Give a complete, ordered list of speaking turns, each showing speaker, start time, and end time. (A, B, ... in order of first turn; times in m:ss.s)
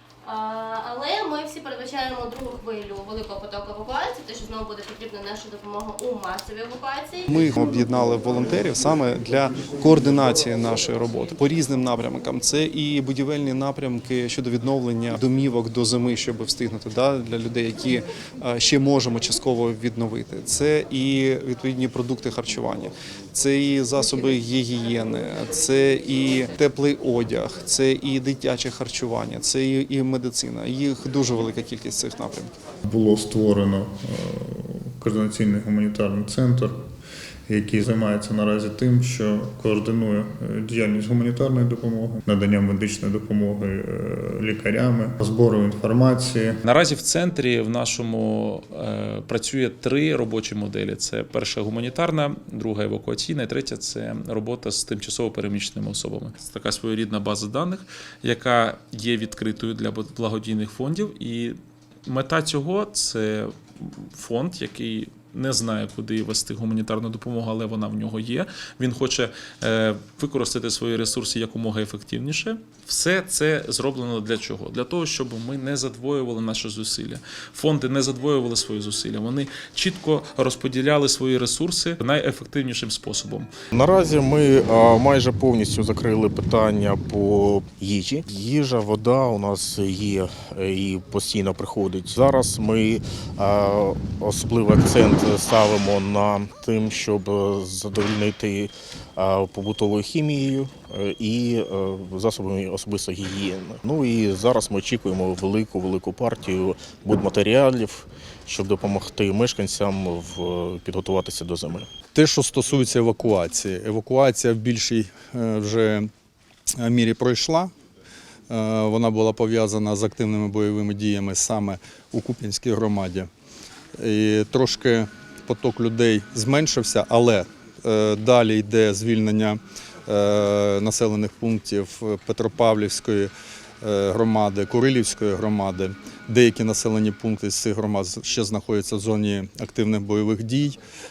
0:00.2-0:07.3 A
0:07.3-0:32.5 B
0:32.8-0:36.8 C
0:37.5-0:46.6 C
0:46.6-1:23.5 D
1:23.7-1:51.9 E
1:52.1-1:56.1 F
1:56.8-1:57.7 F
1:58.5-2:03.3 F
2:04.0-2:20.8 F